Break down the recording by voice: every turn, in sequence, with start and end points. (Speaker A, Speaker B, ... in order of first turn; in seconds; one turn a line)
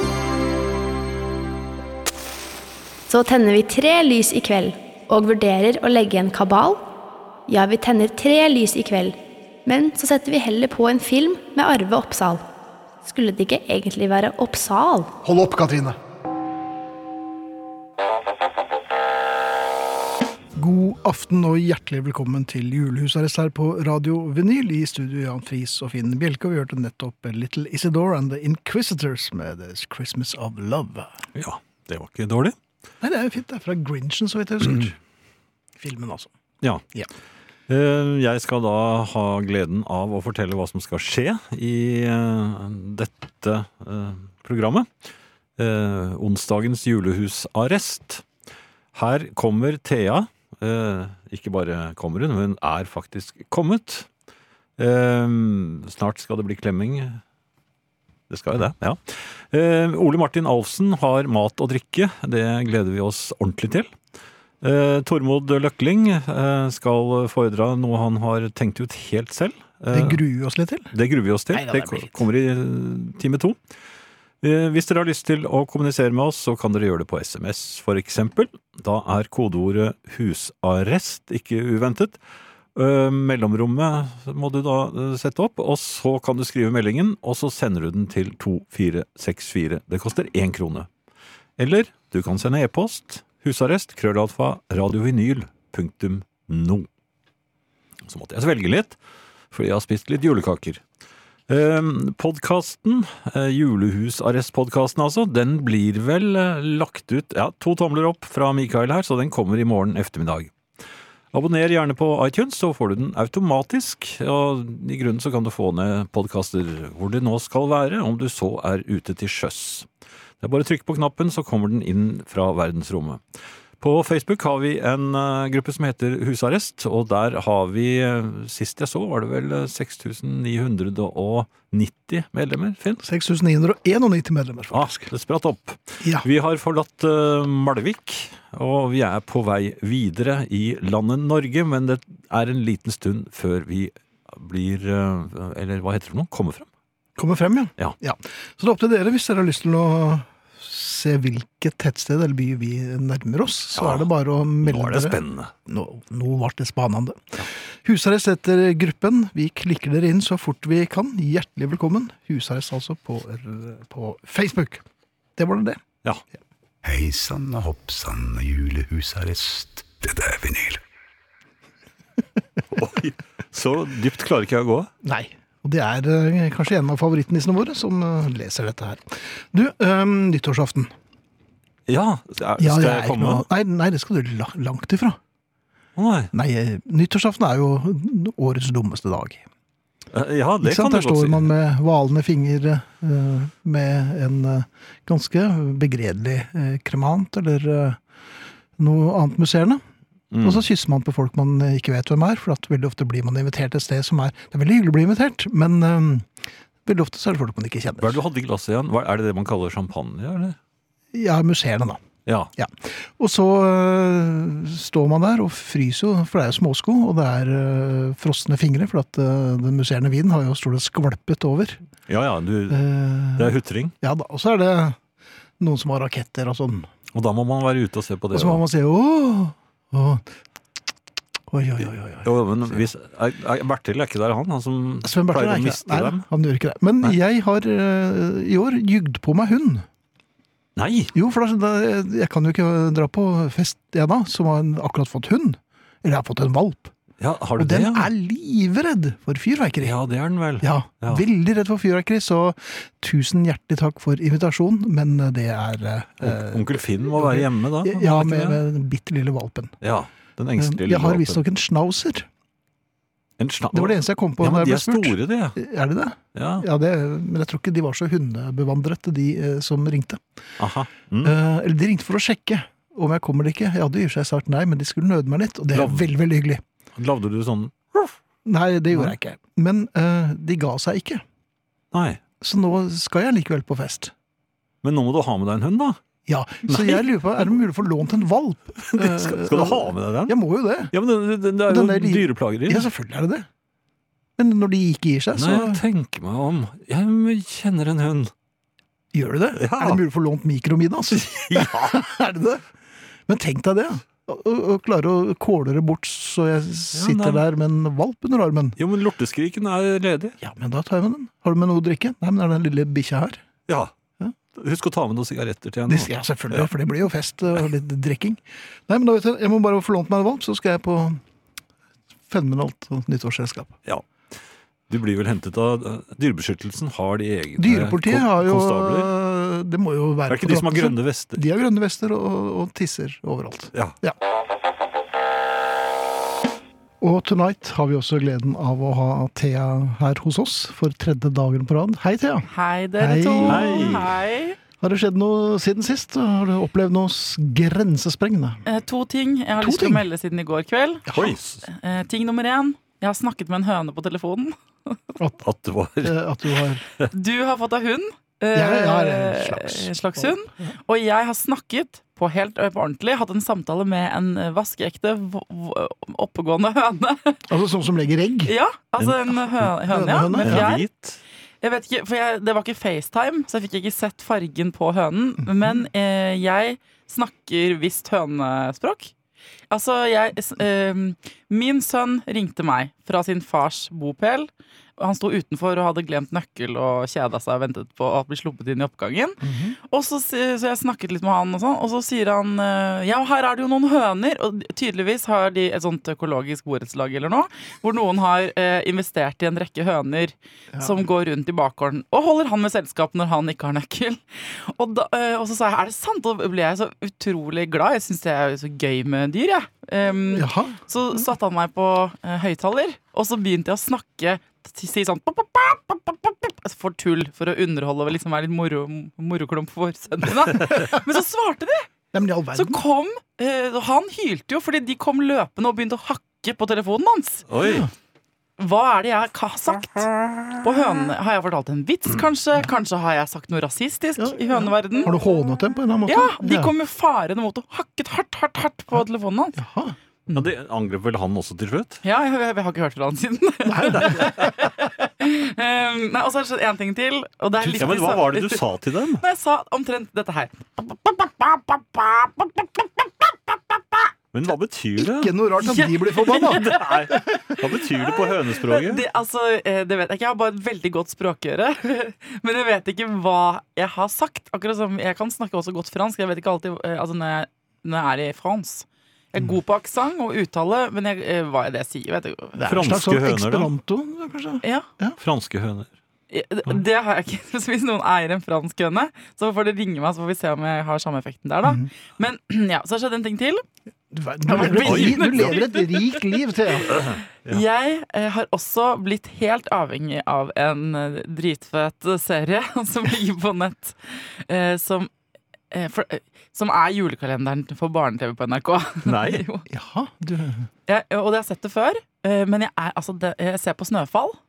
Speaker A: 3.1-6.8
Speaker A: 7.5-12.5
Speaker A: 13.0-15.1
Speaker B: 15.2-16.0
Speaker B: 20.5-31.2
Speaker C: 31.4-32.6
Speaker B: 33.0-35.0
Speaker B: 35.8-36.3
Speaker C: 37.7-44.9
Speaker C: 45.6-48.2
Speaker C: 48.9-54.1
Speaker C: 54.8-57.2
Speaker C: 58.3-63.9
Speaker C: 64.6-70.2
Speaker B: 69.9-70.9
Speaker C: 70.9-73.6
Speaker C: 74.4-82.2
Speaker C: 82.8-90.9
Speaker C: 91.6-96.9
Speaker C: 98.1-99.0
Speaker C: 99.5-100.8
Speaker C: 101.5-110.5
Speaker C: 111.3-119.9
Speaker C: 120.4-123.2
Speaker C: 123.8-133.0
Speaker B: 133.0-135.1
Speaker C: 134.7-146.7
Speaker B: 147.2-164.8
Speaker C: 153.8-154.1
Speaker C: 154.6-155.5
Speaker B: 165.3-165.8
Speaker D: 166.8-170.8
Speaker C: 172.7-174.9
Speaker B: 175.0-180.9
Speaker C: 181.9-183.4
Speaker B: 182.6-185.2
Speaker C: 185.9-186.3
Speaker B: 186.3-189.4
Speaker C: 190.1-191.5
Speaker B: 190.6-198.0
Speaker B: 198.8-199.8
Speaker C: 200.3-200.6
Speaker B: 200.4-206.3
Speaker B: 206.8-208.2
Speaker C: 208.0-210.6
Speaker B: 211.1-212.0
Speaker C: 212.2-212.5
Speaker B: 212.6-221.8
Speaker C: 222.1-222.8
Speaker B: 222.7-225.0
Speaker C: 223.3-223.9
Speaker B: 225.6-226.9
Speaker C: 227.1-228.6
Speaker B: 228.3-230.2
Speaker B: 231.5-232.8
Speaker C: 232.2-236.2
Speaker B: 235.0-239.9
Speaker C: 240.8-241.1
Speaker B: 241.1-246.9
Speaker C: 247.2-248.1
Speaker B: 247.6-249.9
Speaker C: 249.8-251.2
Speaker B: 250.6-259.8
Speaker C: 256.2-258.6
Speaker C: 259.8-261.4
Speaker B: 260.6-262.3
Speaker C: 263.4-265.6
Speaker B: 263.7-270.2
Speaker C: 266.3-266.6
Speaker C: 270.6-271.3
Speaker B: 271.2-276.6
Speaker C: 275.7-276.1
Speaker C: 276.9-278.2
Speaker B: 278.4-281.2
Speaker C: 281.9-282.2
Speaker B: 282.4-284.1
Speaker C: 284.8-286.0
Speaker B: 286.2-290.9
Speaker C: 286.7-287.1
Speaker C: 288.9-290.4
Speaker C: 290.9-292.9
Speaker B: 291.7-293.5
Speaker B: 294.4-295.8
Speaker C: 295.3-298.3
Speaker B: 299.1-302.6
Speaker C: 299.6-300.0
Speaker C: 301.1-302.0
Speaker B: 303.3-308.8
Speaker C: 306.9-307.4
Speaker C: 308.8-310.4
Speaker B: 310.4-313.4
Speaker C: 314.6-316.7
Speaker B: 315.9-321.2
Speaker B: 322.3-323.8
Speaker C: 324.9-329.1
Speaker B: 327.6-334.1
Speaker C: 330.3-331.4
Speaker B: 337.0-344.1
Speaker E: 342.5-344.6
Speaker C: 343.4-344.1
Speaker B: 344.8-348.6
Speaker E: 348.6-351.1
Speaker B: 349.6-350.0
Speaker B: 351.1-351.4
Speaker C: 351.1-351.6
Speaker E: 351.6-355.0
Speaker C: 355.4-356.2
Speaker B: 356.0-356.8
Speaker E: 357.1-367.4
Speaker B: 358.5-360.7
Speaker B: 367.5-368.5
Speaker E: 368.4-370.8
Speaker B: 369.9-370.8
Speaker C: 370.4-371.2
Speaker E: 371.6-379.1
Speaker B: 375.4-375.9
Speaker E: 379.7-421.9
Speaker B: 389.4-389.8
Speaker B: 400.7-401.0
Speaker B: 410.3-410.8
Speaker B: 422.1-422.8
Speaker E: 422.5-427.4
Speaker C: 427.5-427.9
Speaker B: 427.6-427.9
Speaker E: 428.6-430.1
Speaker C: 430.2-430.6
Speaker E: 430.6-435.1
Speaker B: 434.2-436.7
Speaker E: 436.1-439.6
Speaker B: 439.6-439.9
Speaker C: 440.3-442.0
Speaker E: 442.0-454.1
Speaker B: 443.6-444.5
Speaker C: 443.9-444.4
Speaker B: 447.6-448.0
Speaker C: 447.8-449.2
Speaker C: 454.3-455.3
Speaker B: 455.2-457.1
Speaker E: 455.6-472.9
Speaker C: 456.2-459.1
Speaker B: 472.6-475.2
Speaker C: 472.6-473.7
Speaker E: 474.6-474.9
Speaker C: 475.2-475.9
Speaker E: 476.3-483.6
Speaker B: 484.1-487.0
Speaker E: 484.5-486.0
Speaker C: 484.6-485.6
Speaker C: 486.9-487.6
Speaker E: 487.5-495.1
Speaker E: 495.7-499.6
Speaker C: 499.0-499.4
Speaker B: 499.7-500.7
Speaker E: 500.9-504.4